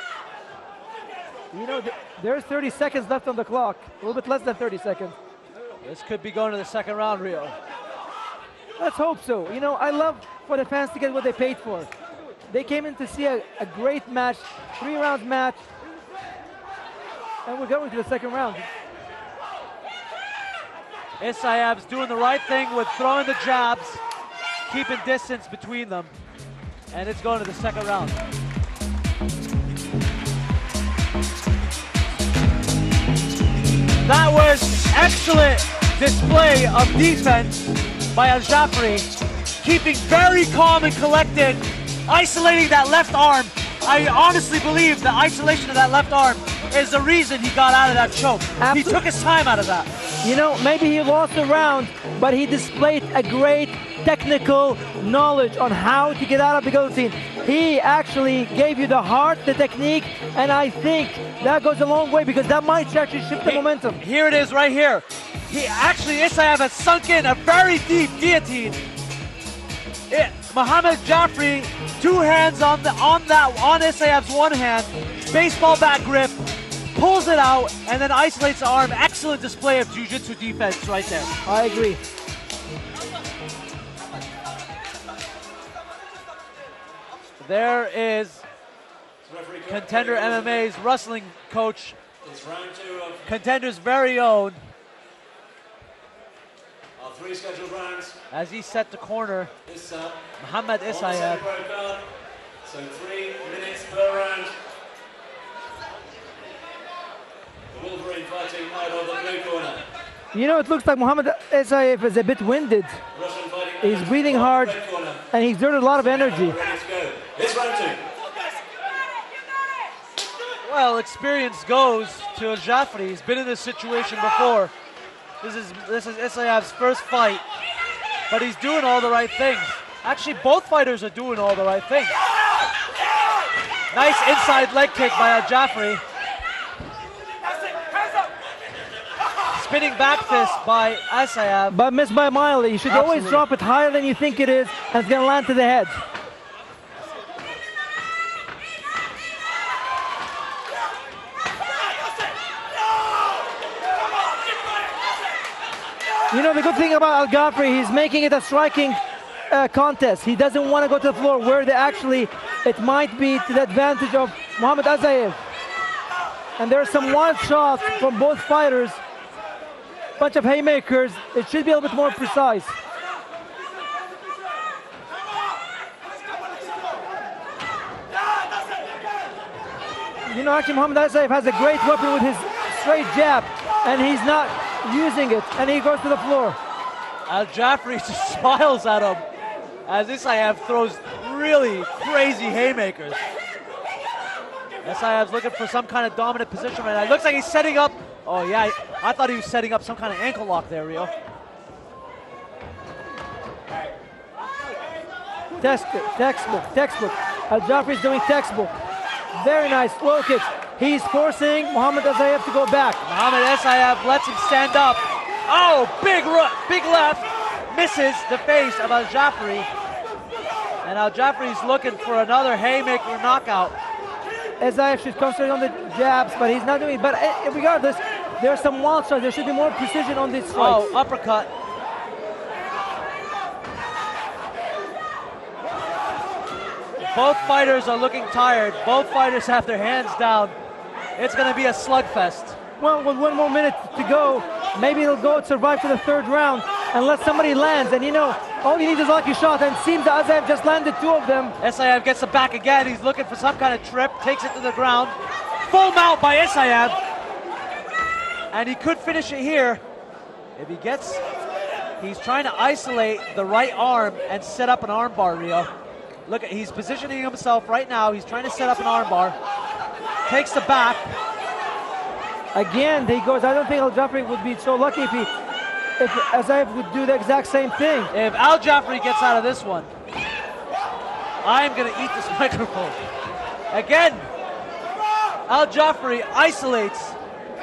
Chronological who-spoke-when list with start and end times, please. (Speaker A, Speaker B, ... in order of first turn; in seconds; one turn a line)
Speaker A: 1.5-5.1
Speaker B: 5.8-7.5
Speaker A: 8.8-11.9
Speaker A: 12.5-15.6
Speaker A: 17.4-18.7
Speaker B: 21.2-24.0
Speaker B: 24.6-26.1
Speaker B: 26.9-28.2
Speaker B: 34.0-39.1
Speaker B: 39.6-49.9
Speaker A: 48.6-49.0
Speaker A: 50.2-64.0
Speaker B: 63.4-68.8
Speaker B: 70.1-76.4
Speaker B: 76.9-81.3
Speaker A: 81.4-82.0
Speaker B: 87.4-88.4
Speaker C: 89.2-90.7
Speaker B: 89.7-92.0
Speaker C: 92.2-93.3
Speaker B: 93.2-94.6
Speaker C: 97.0-98.2
Speaker B: 98.3-99.5
Speaker C: 99.6-100.2
Speaker B: 100.4-101.4
Speaker C: 100.9-102.1
Speaker C: 102.6-104.5
Speaker C: 107.7-109.8
Speaker A: 110.3-113.0
Speaker C: 113.1-115.2
Speaker A: 113.8-114.8
Speaker A: 115.3-116.6
Speaker C: 116.0-118.0
Speaker B: 120.6-124.7
Speaker B: 125.4-127.4
Speaker B: 128.3-132.2
Speaker B: 133.9-136.0
Speaker B: 139.5-141.8
Speaker A: 141.7-146.0
Speaker B: 142.9-143.4
Speaker A: 156.3-165.4
Speaker A: 166.6-169.0
Speaker A: 170.2-172.7
Speaker A: 180.2-186.6
Speaker B: 187.3-189.2
Speaker B: 189.8-193.2
Speaker B: 194.8-201.1
Speaker A: 205.6-208.7
Speaker A: 209.3-213.0
Speaker B: 213.0-219.7
Speaker B: 220.8-223.8
Speaker A: 224.6-230.9
Speaker B: 230.5-231.5
Speaker B: 237.0-240.5
Speaker B: 241.2-242.6
Speaker A: 242.8-251.6
Speaker B: 251.6-257.0
Speaker B: 258.5-259.8
Speaker B: 260.6-261.2
Speaker B: 262.0-265.7
Speaker B: 266.2-269.4
Speaker B: 270.3-271.1
Speaker A: 272.5-275.3
Speaker A: 276.0-278.1
Speaker B: 278.1-279.9
Speaker B: 281.4-283.0
Speaker B: 283.7-284.3
Speaker B: 285.5-287.2